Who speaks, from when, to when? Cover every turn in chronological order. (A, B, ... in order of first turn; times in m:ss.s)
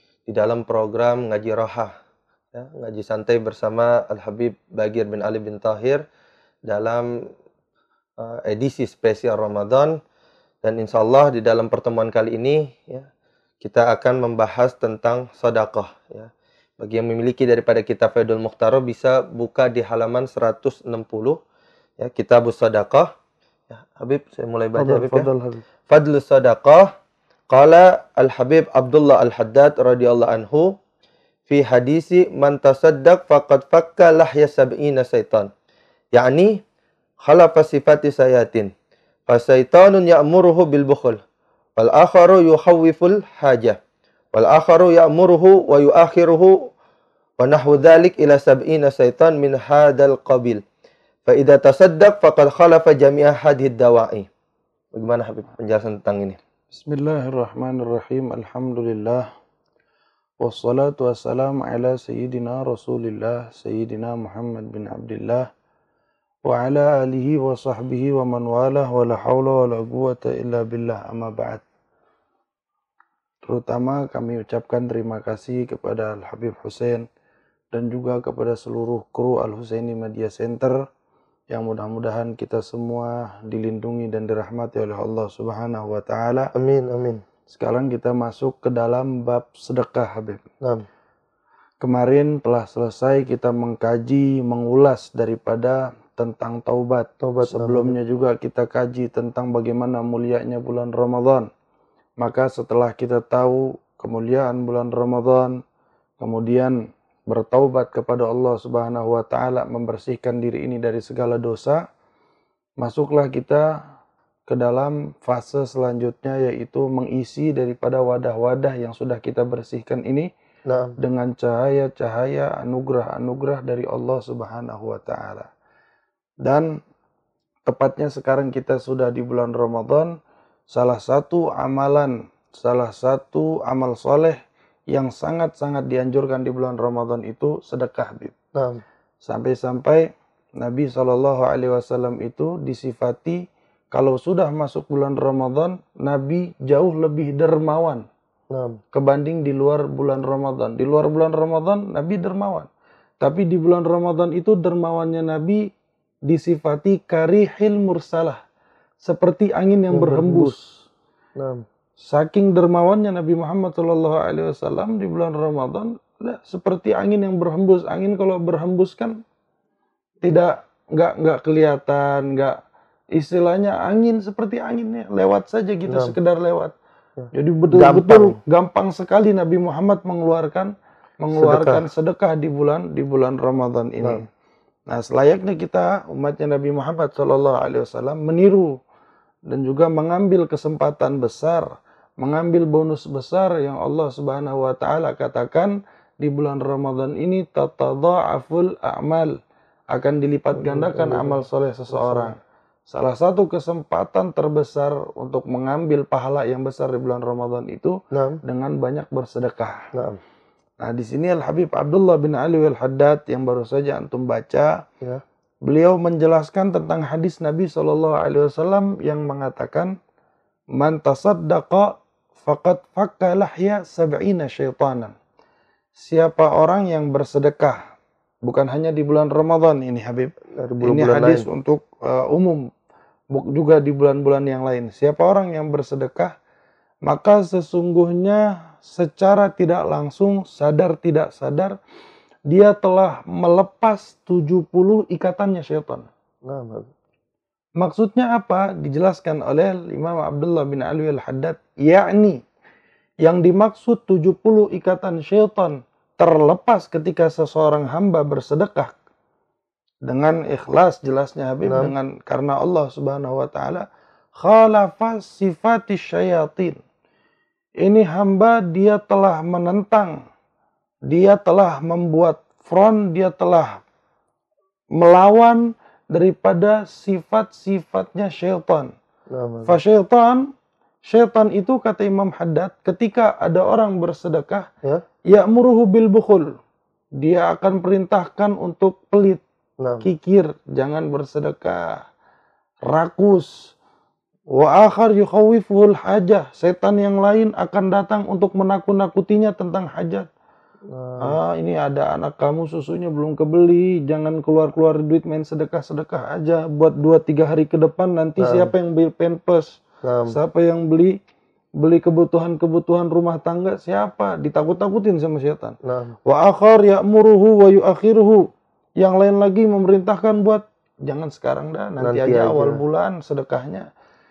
0:00.3-0:01.9 A
0:02.5-0:06.0 A
0:06.7-0:07.1 A
0:08.2-0:10.0 A
0:10.6-0:13.1 A
0:13.6-0:21.4 A
0:22.0-0:23.1 A
0:23.7-0:25.3 A
0:24.7-0:25.6 B
0:25.9-0:26.9 A
0:27.5-0:30.7 A
0:31.5-0:35.5 A
0:36.1-0:36.6 A
0:37.2-0:38.7 A
0:39.3-0:41.2 A
0:41.8-0:43.8 A
0:44.3-0:46.7 A
0:47.4-0:50.6 A
0:51.3-0:54.3 A
0:54.9-0:56.4 A
0:56.7-0:59.2 B
1:00.4-1:05.5 B
1:06.4-1:11.6 B
1:13.4-1:17.1 B
1:17.7-1:20.8 B
1:21.5-1:26.5 B
1:26.6-1:27.2 A
1:27.5-1:30.4 B
1:31.8-1:41.5 B
1:37.2-1:37.9 A
1:42.2-1:45.6 B
1:46.2-1:46.8 B
1:47.3-1:51.8 B
1:52.8-1:53.7 B
1:54.5-2:00.3 B
2:00.7-2:01.0 A
2:01.0-2:05.5 B
2:06.4-2:06.7 B
2:07.7-2:10.2 B
2:10.7-2:14.4 B
2:14.9-2:18.3 B
2:18.5-2:18.8 A
2:19.2-2:28.0 B
2:28.5-2:28.8 A
2:28.9-2:32.7 B
2:33.2-2:35.7 B
2:36.3-2:38.4 B
2:39.0-2:40.9 B
2:39.9-2:40.5 A
2:41.4-2:41.6 A
2:42.0-2:49.2 B
2:50.2-2:52.6 B
2:53.2-2:56.7 B
2:57.2-2:58.4 A
2:57.3-3:04.2 B
3:01.3-3:01.8 A
3:04.9-3:08.8 B
3:09.5-3:19.4 B
3:19.9-3:29.9 B
3:20.6-3:21.3 A
3:22.0-3:22.3 A
3:28.1-3:28.4 A
3:29.9-3:30.2 A
3:30.8-3:34.8 B
3:35.6-3:39.9 B
3:40.7-3:45.2 B
3:46.0-3:47.8 B
3:48.4-3:52.7 B
3:50.5-3:51.5 A
3:53.3-3:56.3 B
3:57.0-4:01.8 B
4:02.5-4:06.1 B
4:06.4-4:06.9 A
4:07.8-4:12.4 B
4:13.2-4:18.9 B
4:20.0-4:26.8 B
4:21.6-4:21.9 A
4:27.8-4:30.2 B
4:31.1-4:33.8 B
4:34.9-4:38.9 B
4:39.3-4:39.7 A
4:39.6-4:40.5 B
4:41.0-4:44.7 B
4:45.3-4:46.6 B
4:47.2-4:49.4 B
4:49.8-4:50.1 A
4:50.0-4:52.0 B
4:52.9-4:53.7 B
4:54.5-5:00.3 B
5:00.9-5:01.4 A
5:01.2-5:11.2 B
5:08.4-5:08.7 A
5:10.0-5:10.4 A
5:11.8-5:23.9 B
5:15.9-5:16.1 A
5:22.0-5:22.8 A